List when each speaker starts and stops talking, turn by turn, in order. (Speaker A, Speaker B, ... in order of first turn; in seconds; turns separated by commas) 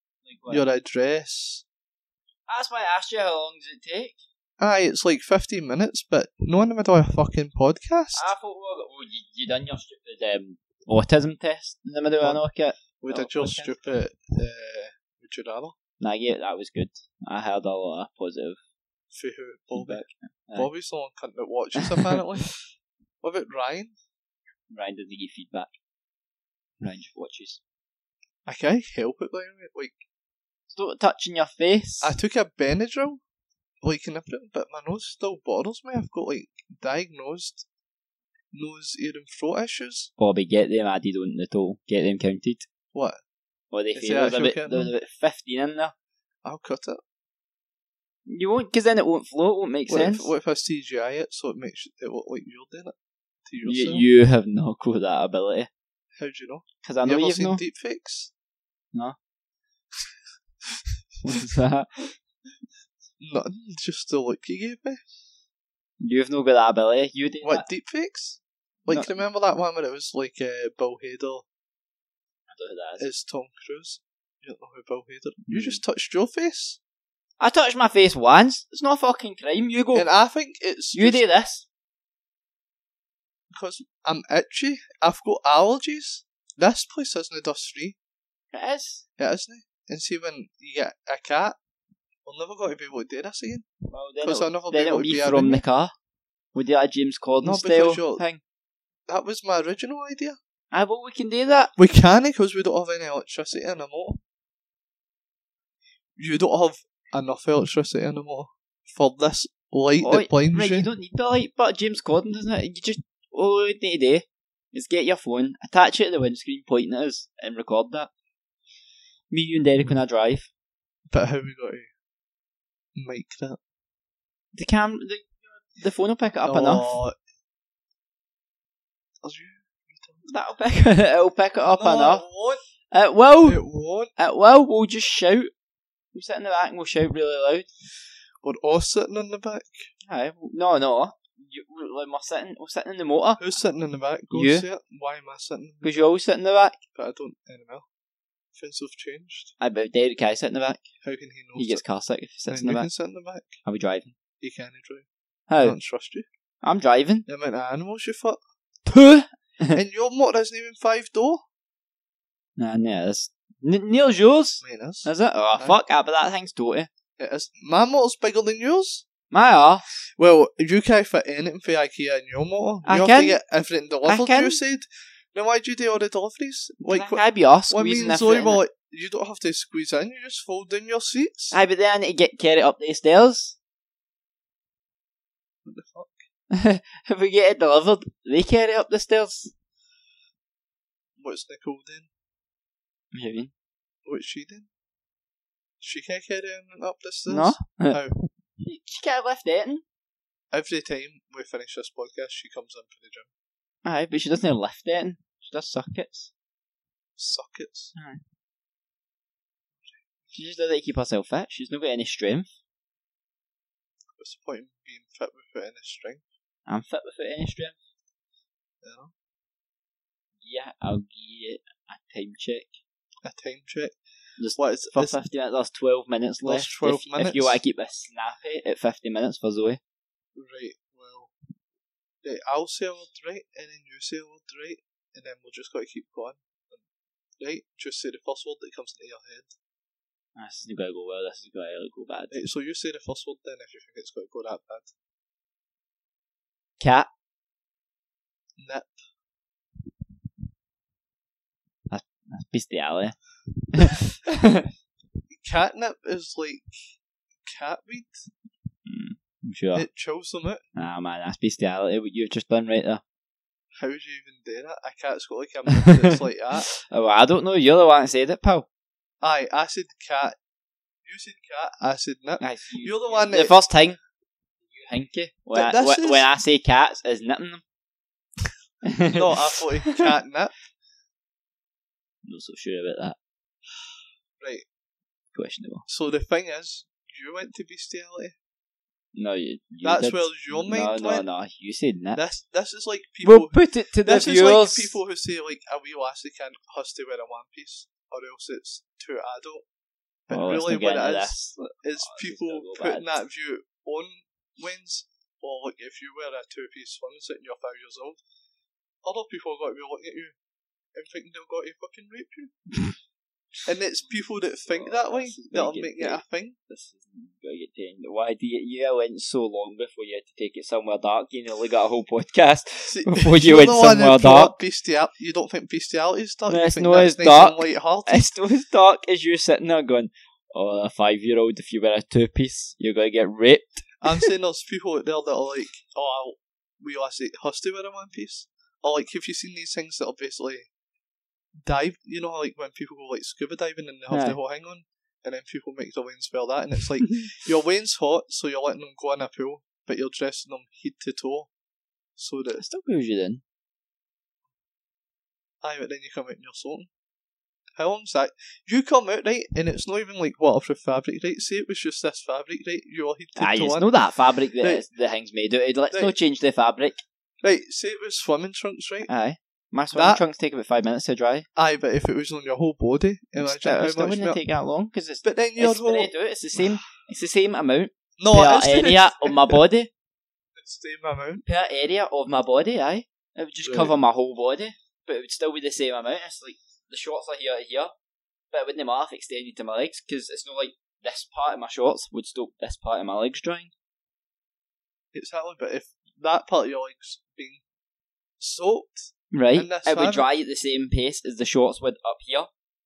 Speaker A: 0.2-0.7, Speaker B: 0.5-1.6, Speaker A: 2.5-4.2, Speaker B: 4.6-8.3, Speaker A: 8.1-13.8, Speaker B: 13.0-15.8, Speaker A: 16.0-18.6, Speaker B: 19.1-20.0, Speaker A: 19.7-20.7, Speaker B: 20.5-22.5, Speaker B: 23.2-23.9, Speaker A: 24.7-25.7, Speaker A: 26.8-27.6, Speaker B: 28.4-30.0, Speaker A: 30.7-32.1, Speaker B: 32.0-33.2, Speaker B: 33.8-37.6, Speaker B: 38.5-40.1, Speaker A: 40.2-42.7, Speaker B: 42.9-43.2, Speaker A: 43.7-45.9, Speaker B: 43.9-44.9, Speaker B: 46.4-47.0, Speaker A: 48.2-50.3, Speaker B: 49.9-54.0, Speaker A: 53.6-55.7, Speaker B: 56.2-58.3, Speaker A: 56.8-57.6, Speaker A: 61.2-62.0, Speaker B: 63.2-65.0, Speaker A: 66.0-67.7, Speaker B: 67.4-71.5, Speaker A: 68.9-69.2, Speaker A: 72.5-73.0, Speaker B: 73.0-76.8, Speaker A: 75.5-75.8, Speaker A: 77.4-80.1, Speaker B: 79.9-81.2, Speaker A: 80.9-81.6, Speaker B: 83.5-88.0, Speaker A: 88.5-89.0, Speaker B: 89.2-91.6, Speaker B: 92.2-93.7, Speaker A: 93.9-95.9, Speaker B: 94.2-95.6, Speaker A: 96.5-98.4, Speaker B: 97.4-98.2, Speaker B: 99.1-100.4, Speaker A: 100.7-101.7, Speaker B: 101.8-104.2, Speaker B: 106.2-110.9, Speaker A: 110.0-118.1, Speaker A: 119.3-120.5, Speaker B: 121.1-121.9, Speaker B: 123.0-123.6, Speaker A: 124.5-127.0, Speaker B: 126.4-127.1, Speaker B: 129.2-130.3, Speaker A: 130.3-132.2, Speaker B: 131.7-132.6, Speaker A: 132.9-133.6, Speaker B: 133.4-134.1, Speaker A: 134.2-135.5, Speaker A: 136.1-137.7, Speaker B: 138.4-139.9, Speaker A: 140.1-143.4, Speaker B: 143.4-145.9, Speaker A: 144.3-144.6, Speaker A: 145.8-146.8, Speaker B: 146.9-147.9, Speaker B: 148.5-149.5, Speaker A: 149.6-150.8, Speaker B: 151.0-151.8, Speaker A: 151.6-152.9, Speaker B: 152.5-153.6, Speaker A: 153.6-154.1, Speaker B: 154.4-155.1, Speaker A: 155.5-155.8, Speaker B: 155.6-156.2, Speaker A: 156.6-157.2, Speaker B: 157.2-158.4, Speaker A: 158.8-159.8, Speaker B: 159.7-161.4, Speaker A: 162.6-166.9, Speaker B: 164.6-165.8, Speaker B: 167.2-169.1, Speaker A: 169.3-169.9, Speaker B: 170.2-181.6, Speaker A: 172.8-173.4, Speaker A: 174.1-174.6, Speaker A: 176.8-178.6, Speaker A: 181.5-183.6, Speaker B: 185.6-186.2, Speaker A: 186.5-189.5, Speaker B: 191.2-192.1, Speaker A: 193.1-193.5, Speaker B: 194.0-194.7, Speaker B: 195.8-198.2, Speaker A: 197.3-198.0, Speaker A: 198.6-199.8, Speaker B: 200.5-203.3, Speaker A: 203.8-206.3, Speaker B: 207.2-207.9, Speaker A: 207.9-208.2, Speaker A: 210.3-212.5, Speaker B: 214.2-216.3, Speaker A: 216.7-217.8, Speaker B: 218.8-219.1, Speaker A: 220.4-222.8, Speaker B: 223.2-224.0, Speaker A: 224.4-229.8, Speaker B: 224.6-225.2, Speaker B: 226.4-227.6, Speaker B: 230.3-231.3, Speaker B: 232.2-236.8, Speaker B: 237.4-239.6, Speaker A: 240.3-242.4, Speaker B: 242.3-244.9, Speaker A: 246.8-247.1, Speaker B: 248.6-249.0, Speaker A: 251.9-253.2, Speaker A: 253.7-254.7, Speaker B: 255.3-256.7, Speaker B: 257.4-258.2, Speaker A: 258.9-259.9, Speaker B: 259.7-260.6, Speaker A: 260.8-263.0, Speaker B: 263.8-266.7, Speaker A: 266.7-268.6, Speaker B: 269.2-270.4, Speaker B: 271.0-273.6, Speaker A: 272.4-274.0, Speaker A: 274.7-277.6, Speaker B: 275.5-276.3, Speaker A: 278.8-280.1, Speaker B: 279.1-280.5, Speaker A: 282.2-283.2, Speaker B: 284.4-284.7, Speaker A: 285.3-285.8, Speaker B: 285.9-288.4, Speaker A: 289.1-292.2, Speaker B: 289.8-291.3, Speaker B: 292.1-299.6, Speaker A: 293.2-295.0, Speaker B: 300.3-308.2, Speaker A: 300.3-303.2, Speaker B: 309.0-310.4, Speaker B: 310.9-312.6, Speaker B: 313.6-316.6, Speaker A: 314.1-324.6, Speaker B: 322.9-328.3, Speaker A: 326.5-333.9, Speaker B: 334.0-340.7, Speaker B: 341.6-351.5, Speaker A: 344.1-344.4, Speaker B: 352.1-352.6, Speaker A: 352.6-353.4, Speaker B: 355.6-356.9, Speaker B: 357.8-364.0, Speaker A: 363.4-367.0, Speaker B: 364.6-364.8, Speaker B: 365.9-366.1, Speaker B: 367.4-369.1, Speaker A: 369.1-371.5, Speaker B: 369.9-370.2, Speaker B: 371.6-374.4, Speaker A: 373.4-379.9, Speaker B: 375.2-376.8, Speaker B: 378.2-379.6, Speaker B: 380.6-381.4, Speaker A: 381.4-387.9, Speaker B: 383.6-383.9, Speaker A: 388.5-393.7, Speaker B: 395.1-397.6, Speaker B: 398.4-400.3, Speaker A: 399.3-402.5